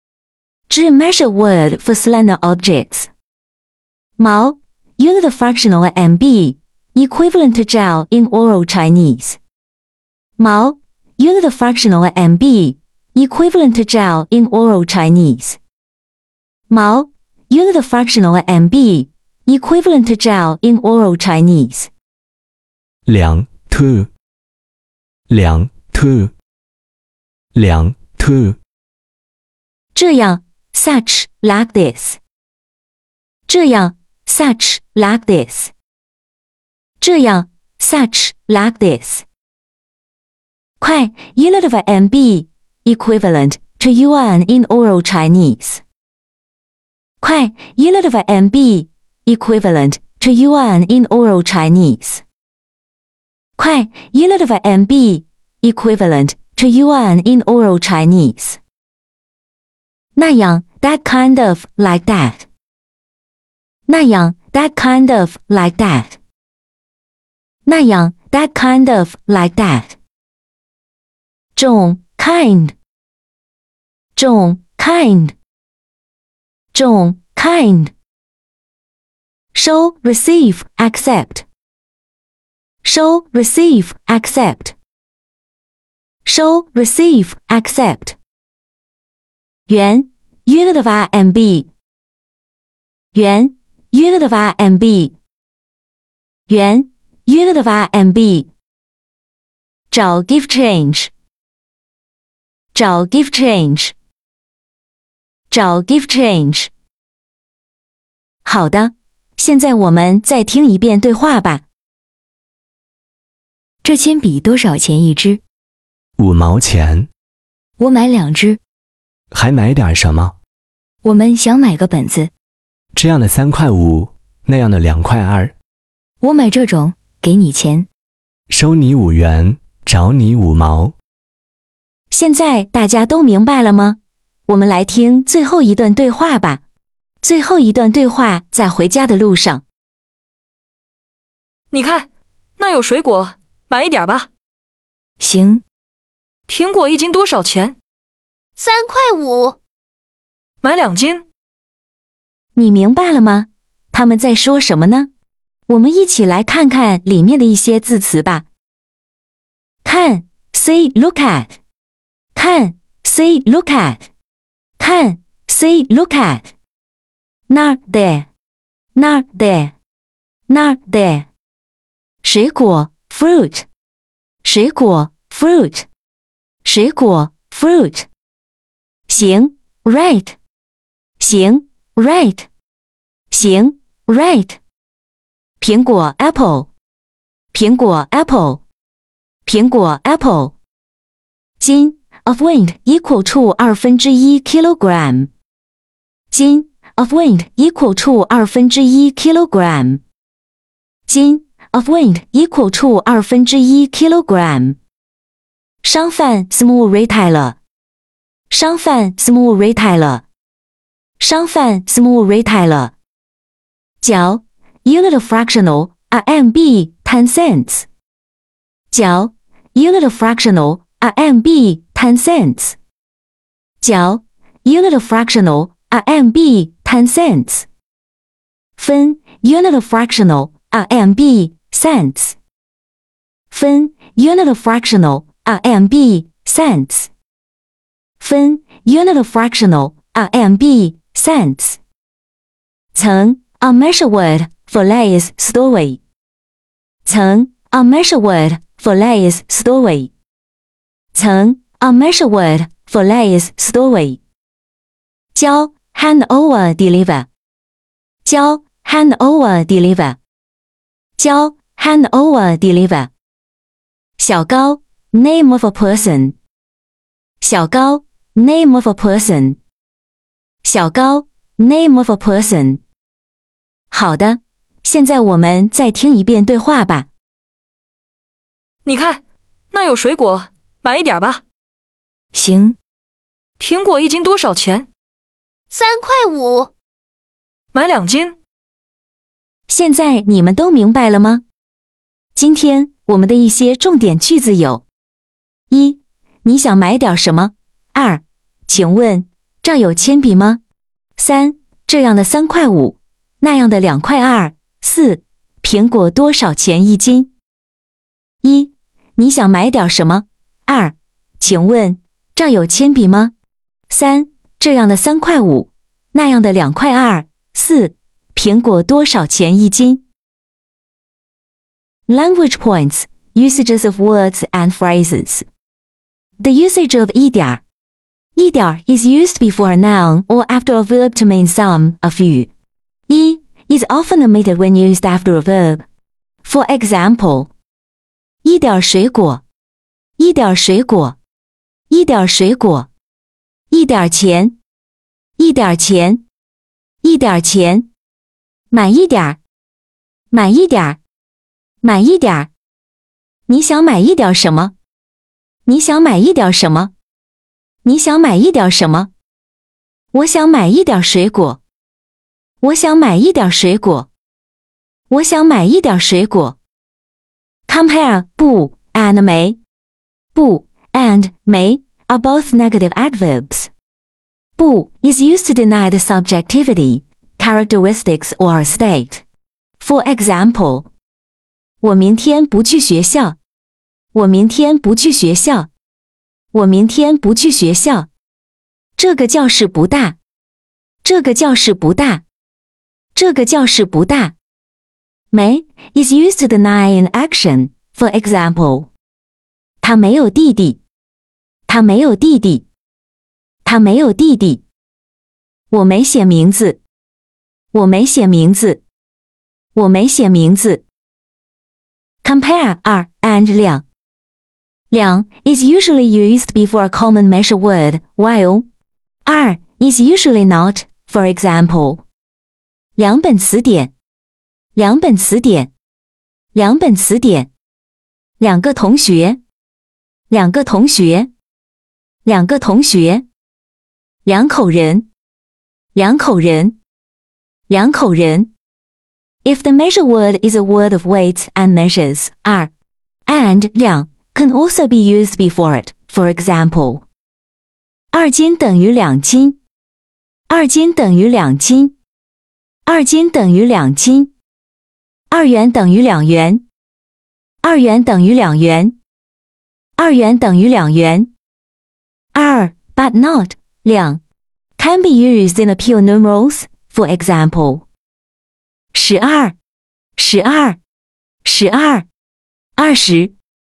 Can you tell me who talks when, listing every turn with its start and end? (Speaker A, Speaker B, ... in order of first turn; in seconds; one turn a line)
Speaker A: 0.7-3.1
Speaker A: 4.2-9.4
Speaker A: 10.4-15.6
Speaker A: 16.7-21.9
Speaker B: 23.1-24.1
Speaker B: 25.3-26.3
Speaker B: 27.5-28.6
Speaker A: 29.9-32.2
Speaker A: 33.5-35.7
Speaker A: 37.0-39.2
Speaker A: 40.8-45.8
Speaker A: 47.2-52.2
Speaker A: 53.6-58.6
Speaker A: 60.1-62.4
Speaker A: 63.9-66.2
Speaker A: 67.6-69.9
Speaker A: 71.6-72.8
Speaker A: 74.2-75.3
Speaker A: 76.7-77.9
Speaker A: 79.5-81.5
Speaker A: 82.8-84.8
Speaker A: 86.2-88.2
Speaker A: 89.7-91.7
Speaker A: 93.1-95.1
Speaker A: 96.5-98.5
Speaker A: 99.9-101.1
Speaker A: 102.7-103.9
Speaker A: 105.5-106.7
Speaker A: 108.4-111.6
Speaker C: 113.8-115.4
Speaker B: 116.2-117.1
Speaker C: 117.8-118.6
Speaker B: 119.3-120.3
Speaker C: 121.0-122.3
Speaker B: 122.9-125.5
Speaker C: 126.2-127.9
Speaker B: 128.5-130.9
Speaker A: 132.1-136.6
Speaker A: 137.2-139.6
Speaker D: 141.7-144.3
Speaker C: 145.2-145.6
Speaker D: 146.5-147.8
Speaker E: 148.6-149.6
Speaker D: 150.6-151.2
Speaker A: 152.6-155.1
Speaker A: 155.7-158.4
Speaker A: 159.8-161.6
Speaker A: 162.3-164.1
Speaker A: 164.8-166.5
Speaker A: 167.5-168.3
Speaker A: 168.9-169.7
Speaker A: 170.5-171.3
Speaker A: 172.2-173.7
Speaker A: 174.4-175.9
Speaker A: 176.6-178.1
Speaker A: 179.1-180.4
Speaker A: 181.2-182.5
Speaker A: 183.3-184.6
Speaker A: 185.6-186.7
Speaker A: 187.5-188.6
Speaker A: 189.4-190.5
Speaker A: 191.6-195.3
Speaker A: 196.3-200.0
Speaker A: 201.1-204.8
Speaker A: 205.8-207.6
Speaker A: 208.5-210.2
Speaker A: 211.2-212.9
Speaker A: 214.0-217.9
Speaker A: 218.9-222.8
Speaker A: 223.8-227.7
Speaker A: 228.8-232.4
Speaker A: 233.5-237.1
Speaker A: 238.2-241.8
Speaker A: 242.9-246.0
Speaker A: 247.0-250.1
Speaker A: 251.1-254.2
Speaker A: 255.3-257.3
Speaker A: 258.2-260.2
Speaker A: 261.2-263.1
Speaker A: 264.2-266.4
Speaker A: 267.4-269.6
Speaker A: 270.6-272.8
Speaker A: 273.9-277.1
Speaker D: 278.9-281.4
Speaker C: 282.3-282.8
Speaker D: 283.6-284.9
Speaker E: 285.7-286.7
Speaker D: 287.7-288.4
Speaker A: 289.7-291.4
Speaker A: 292.4-294.9
Speaker A: 295.7-300.6
Speaker A: 301.2-307.3
Speaker A: 308.4-313.3
Speaker A: 313.9-320.0
Speaker A: 322.1-325.5
Speaker A: 326.4-327.6
Speaker A: 328.4-332.5
Speaker A: 333.1-335.9
Speaker A: 336.4-337.5
Speaker A: 338.4-339.4
Speaker A: 340.2-341.2
Speaker A: 341.9-342.9
Speaker A: 343.7-344.6
Speaker A: 345.4-346.2
Speaker A: 347.0-347.9
Speaker A: 348.7-349.4
Speaker A: 350.3-351.0
Speaker A: 351.8-352.5
Speaker A: 353.5-354.8
Speaker A: 355.6-356.9
Speaker A: 357.8-359.1
Speaker A: 360.1-361.6
Speaker A: 362.6-364.1
Speaker A: 365.1-366.6
Speaker A: 367.7-369.6
Speaker A: 370.3-373.7
Speaker A: 374.6-379.2
Speaker A: 379.8-380.9
Speaker A: 381.8-383.4
Speaker A: 384.1-385.7
Speaker A: 386.5-388.1
Speaker A: 389.0-390.2
Speaker A: 391.0-392.2
Speaker A: 393.1-394.4
Speaker A: 395.3-398.9
Speaker A: 399.8-400.8
Speaker A: 401.7-402.7
Speaker A: 403.6-404.6
Speaker A: 405.7-406.8
Speaker A: 407.7-408.8
Speaker A: 409.8-410.9
Speaker A: 412.2-413.9
Speaker A: 414.9-418.7
Speaker A: 419.2-422.0
Speaker A: 423.0-423.9
Speaker A: 424.8-425.7
Speaker A: 426.5-427.5
Speaker A: 428.4-429.4
Speaker A: 430.3-431.3
Speaker A: 432.2-433.2
Speaker A: 434.2-435.1
Speaker A: 435.9-436.8
Speaker A: 437.7-438.5
Speaker A: 439.4-442.7
Speaker A: 443.2-447.0
Speaker A: 448.1-449.6
Speaker A: 450.5-451.9
Speaker A: 452.9-454.3
Speaker A: 455.3-456.6
Speaker A: 457.6-459.0
Speaker A: 460.0-461.3
Speaker A: 462.3-464.2
Speaker A: 464.8-467.9
Speaker A: 468.9-469.6
Speaker A: 470.2-470.8
Speaker A: 471.4-472.1
Speaker A: 472.8-473.3